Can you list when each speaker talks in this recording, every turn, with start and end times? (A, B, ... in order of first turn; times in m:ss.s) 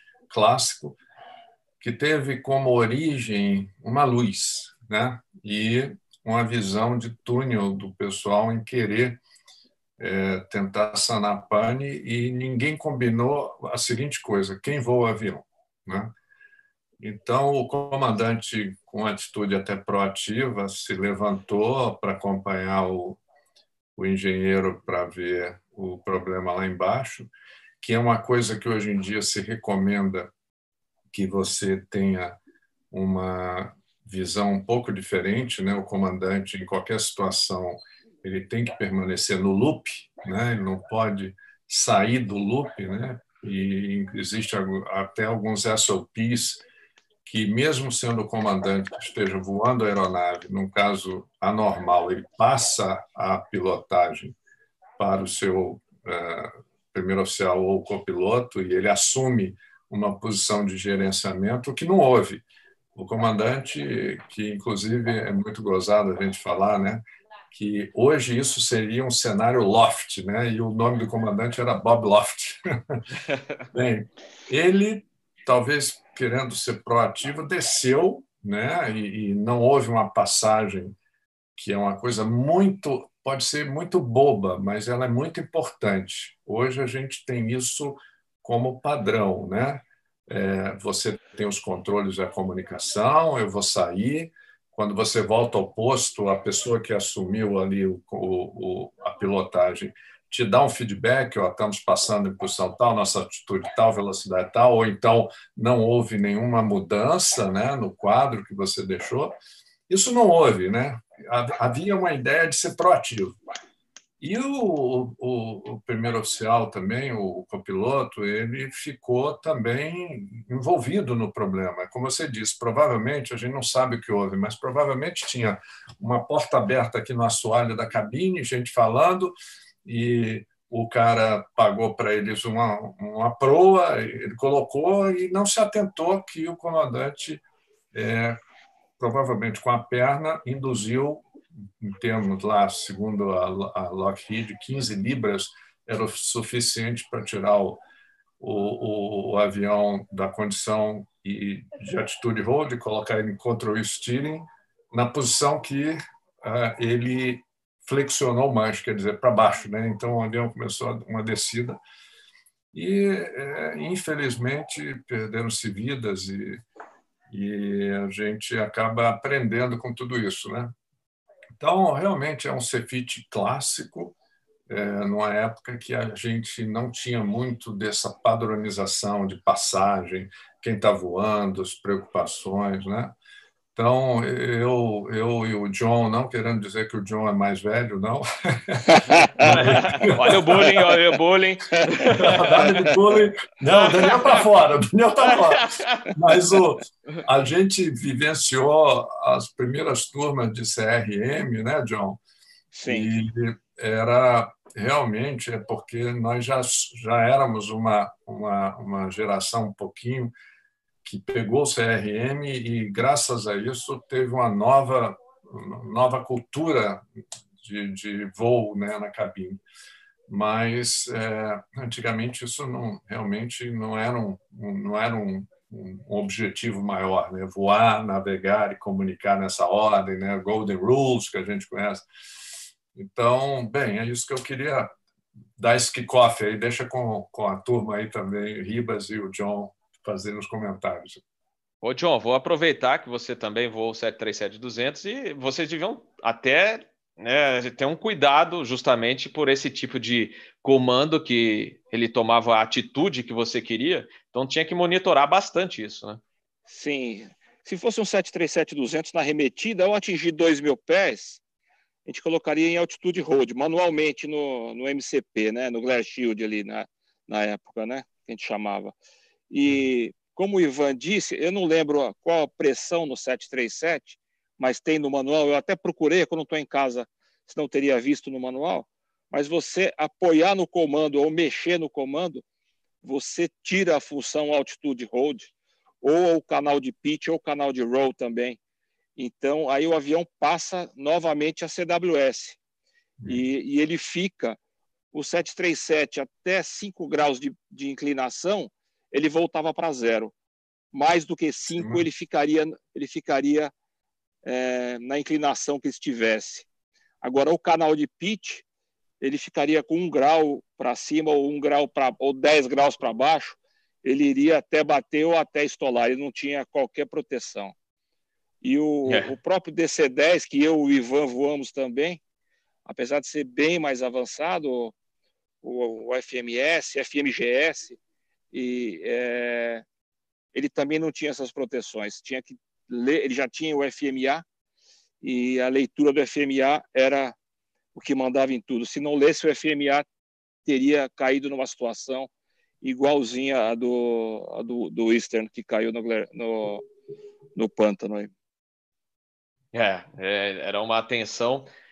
0:00.3-0:01.0 A
0:01.8-0:09.2 A
0:10.0-0:16.1 A
0:17.0-0:23.2 A
0:24.0-0:27.3 A
0:27.8-0:30.3 A
0:31.1-0:32.4 A
0:32.9-0:46.6 A
0:47.2-0:54.4 A
0:55.0-1:02.4 A
1:02.9-1:13.0 A
1:13.7-1:21.0 A
1:21.6-1:49.4 A
1:49.9-1:53.4 A
1:54.2-2:18.4 A
2:19.0-2:21.3 A
2:21.8-2:27.8 A
2:28.4-2:41.8 A
2:42.7-2:46.6 A
2:47.3-2:50.7 A
2:51.6-2:54.1 A
2:54.7-3:03.1 A
3:03.7-3:10.8 A
3:09.4-3:12.8 B
3:12.1-3:22.2 A
3:13.7-3:14.4 B
3:15.3-3:16.1 B
3:22.7-3:23.1 C
3:22.9-3:30.3 A
3:31.0-3:37.0 A
3:37.6-3:39.6 A
3:40.3-3:52.0 A
3:52.9-3:55.0 A
3:55.6-4:01.2 A
4:01.8-4:16.2 B
4:16.7-4:21.4 C
4:22.0-4:28.9 C
4:29.5-4:42.4 C
4:43.0-4:48.6 C
4:49.2-4:52.6 C
4:53.2-4:54.6 C
4:55.1-5:00.3 C
5:00.9-5:03.7 C
5:01.8-5:02.0 A
5:04.4-5:06.7 C
5:07.2-5:08.6 C
5:09.2-5:17.7 C
5:18.6-5:22.2 C
5:19.0-5:19.3 B
5:22.8-5:25.0 C
5:25.6-5:28.0 C
5:28.5-5:29.8 C
5:30.5-5:34.4 C
5:35.2-5:37.4 C
5:37.9-5:40.0 C
5:40.6-5:42.3 C
5:42.8-5:46.8 C
5:47.5-5:48.3 C
5:49.7-5:51.7 B